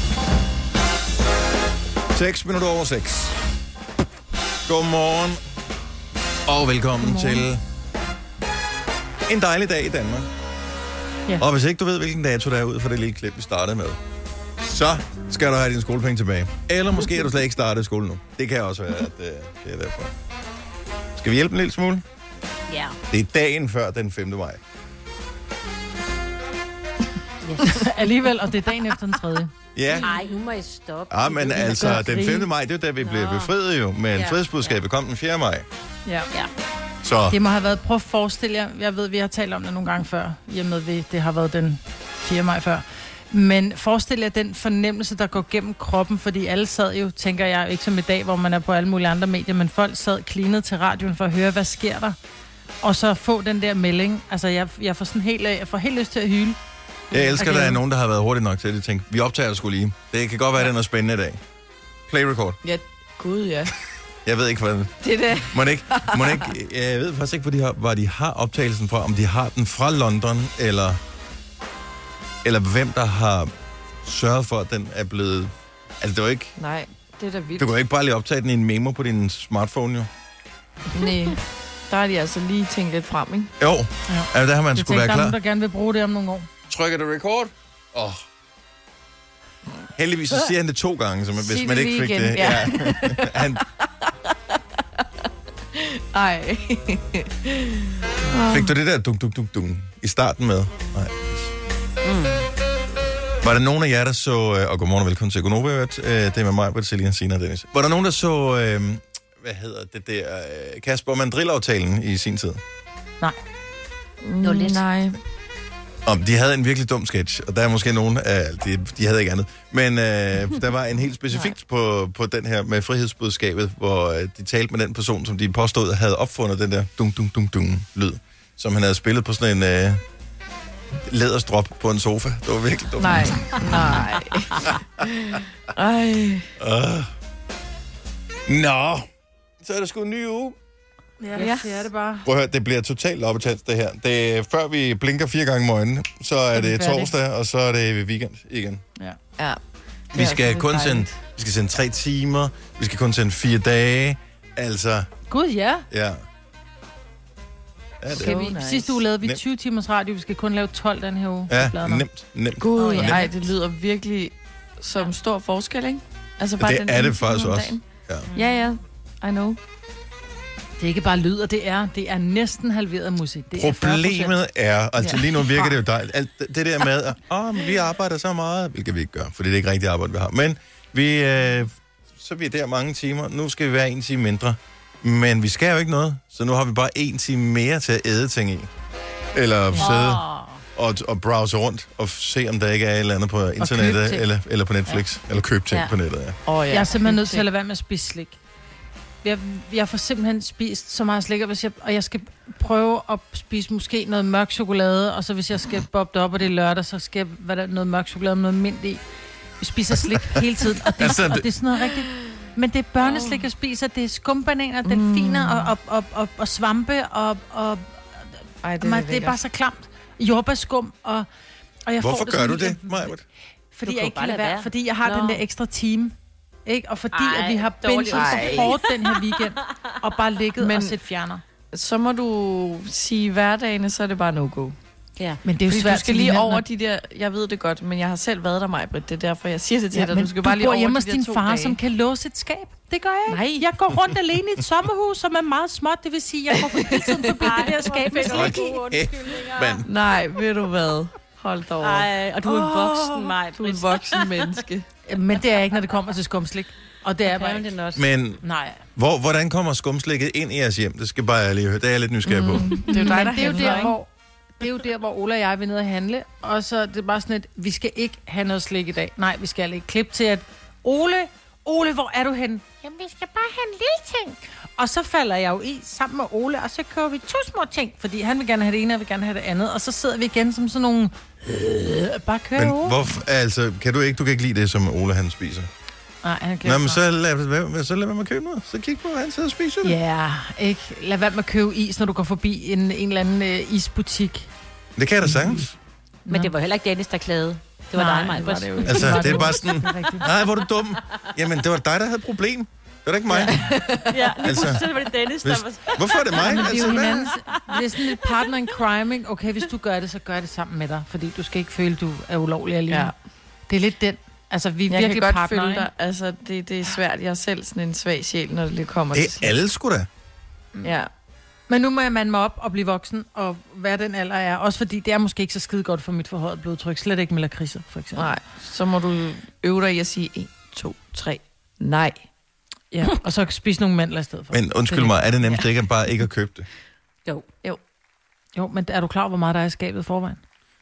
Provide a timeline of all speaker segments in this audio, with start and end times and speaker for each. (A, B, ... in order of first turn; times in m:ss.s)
0:02.1-0:03.3 A
0:04.6-0:05.4 A
0:06.5-0:07.6 A
0:07.0-0:07.4 B
0:09.3-0:10.3 A
0:11.4-0:14.0 A
0:14.6-0:20.1 A
0:21.2-0:22.0 A
0:22.7-0:23.0 C
0:23.1-0:24.6 A
0:27.4-0:27.8 C
0:27.6-0:29.5 B
0:29.7-0:30.1 A
0:30.0-0:32.0 C
0:31.1-0:35.6 A
0:31.5-0:32.4 B
0:33.0-0:33.5 C
0:34.1-0:34.8 C
0:37.0-0:37.4 A
0:37.3-0:52.2 B
0:52.8-0:56.6 B
0:57.1-1:01.4 A
0:57.4-0:57.8 B
1:02.1-1:02.6 A
1:02.6-1:03.7 D
1:04.2-1:11.0 A
1:05.0-1:06.4 D
1:12.4-1:13.5 A
1:14.0-1:16.5 A
1:16.6-1:17.7 D
1:17.6-1:20.1 A
1:20.9-1:23.5 D
1:23.6-1:25.4 A
1:24.1-1:26.5 B
1:26.7-1:28.2 A
1:30.0-1:33.6 A
1:31.4-1:33.6 D
1:35.7-1:38.7 D
1:38.5-1:41.5 A
1:42.0-1:42.5 C
1:43.4-1:52.6 A
1:54.2-1:55.2 D
1:54.4-1:54.8 C
1:56.0-2:10.0 A
2:11.0-2:13.9 A
2:13.0-2:16.5 D
2:16.6-2:17.1 A
2:18.5-2:19.0 A
2:19.6-2:20.6 A
2:21.2-2:22.2 B
2:21.4-2:21.9 D
2:22.2-2:28.8 A
2:26.6-2:27.1 B
2:30.1-2:31.1 D
2:30.1-2:35.1 A
2:35.3-2:35.8 B
2:35.9-2:36.2 A
2:38.0-2:38.5 A
2:38.1-2:39.0 D
2:38.1-2:42.0 B
2:41.5-2:43.3 A
2:42.6-2:47.8 D
2:42.8-2:43.3 B
2:46.6-2:48.3 A
2:48.3-2:49.6 D
2:50.8-2:54.4 B
2:53.5-3:08.7 A
2:55.0-2:55.8 D
3:09.3-3:10.2 A
3:09.8-3:10.6 C
3:10.8-3:16.4 A
3:13.6-3:14.2 B
3:16.4-3:17.4 D
3:16.7-3:18.4 B
3:19.2-3:29.0 B
3:29.6-3:38.0 B
3:31.0-3:31.5 A
3:33.0-3:33.4 D
3:34.8-3:35.7 D
3:38.6-3:39.4 D
3:38.8-3:41.3 B
3:41.9-3:43.1 B
3:42.0-3:43.2 A
3:43.7-3:46.1 B
3:43.8-3:45.4 C
3:46.6-3:51.4 B
3:47.1-3:49.1 C
3:48.1-3:48.7 D
3:50.6-3:51.0 D
3:51.7-3:54.8 D
3:55.4-3:56.6 B
3:55.6-4:01.8 D
3:59.9-4:08.7 B
4:03.3-4:03.7 D
4:06.6-4:07.6 D
4:07.4-4:09.8 C
4:08.2-4:09.9 A
4:09.8-4:14.8 D
4:11.8-4:14.5 C
4:15.1-4:17.7 B
4:17.2-4:18.0 C
4:17.9-4:18.4 A
4:18.4-4:18.8 B
4:19.0-4:22.8 A
4:22.2-4:24.0 D
4:22.9-4:24.1 B
4:23.3-4:23.9 C
4:24.6-4:43.0 B
4:42.6-4:45.7 A
4:46.2-4:47.0 B
4:46.6-4:50.0 A
4:49.8-4:54.5 B
4:55.0-4:55.7 A
4:56.3-4:59.6 C
4:58.0-5:00.2 B
4:58.3-4:59.3 D
4:58.8-5:03.6 A
5:03.4-5:04.2 D
5:04.1-5:07.9 C
5:04.4-5:04.8 A
5:05.4-5:07.3 A
5:06.4-5:13.1 B
5:13.7-5:15.9 B
5:14.9-5:19.5 D
5:19.1-5:20.1 A
5:20.8-5:21.1 D
5:21.7-5:28.3 B
5:28.2-5:32.2 D
5:33.0-5:35.4 B
5:34.5-5:36.7 A
5:38.6-5:40.4 B